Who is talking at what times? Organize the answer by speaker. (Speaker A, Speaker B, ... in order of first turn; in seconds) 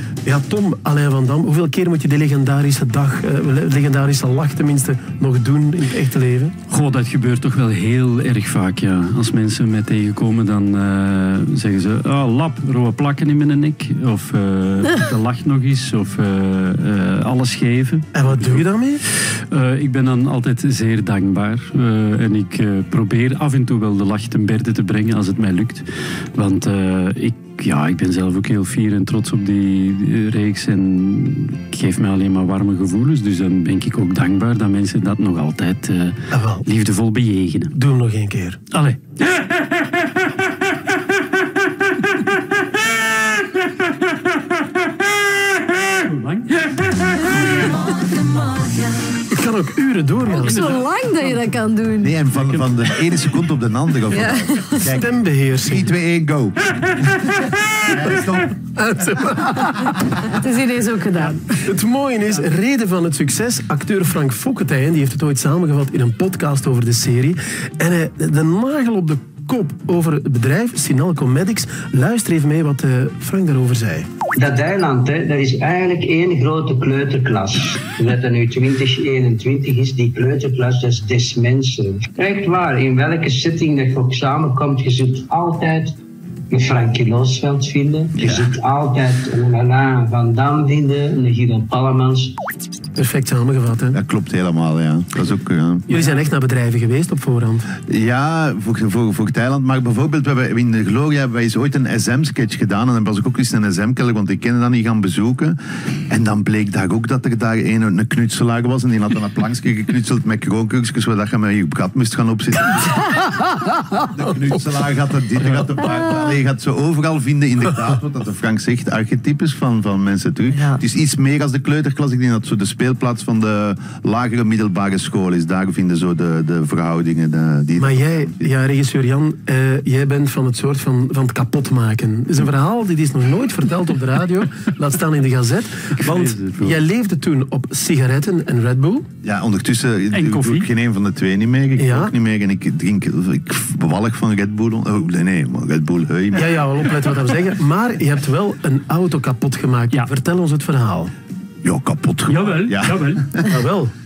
Speaker A: 0.2-6.5, 18.1-19.0, 36.3-36.6, 37.7-38.6, 49.3-50.7, 54.9-55.9, 58.5-60.3, 61.5-74.1, 93.0-94.0, 95.9-97.7, 127.8-139.1, 141.8-142.1, 146.3-151.1, 153.4-153.9
Speaker B: 6.7-18.6, 19.5-37.7, 38.7-39.0, 45.8-47.8, 50.4-51.4, 52.4-52.7, 135.9-136.8, 140.1-140.7, 152.3-153.3
Speaker C: 47.9-48.9, 50.3-52.2, 54.1-54.8, 60.2-61.5
Speaker D: 52.0-57.0, 57.8-58.5, 88.1-88.5, 93.9-96.0, 97.9-105.6, 106.1-113.2, 114.0-128.5, 139.2-146.6, 151.6-153.5
Speaker E: 74.3-85.9, 86.5-92.4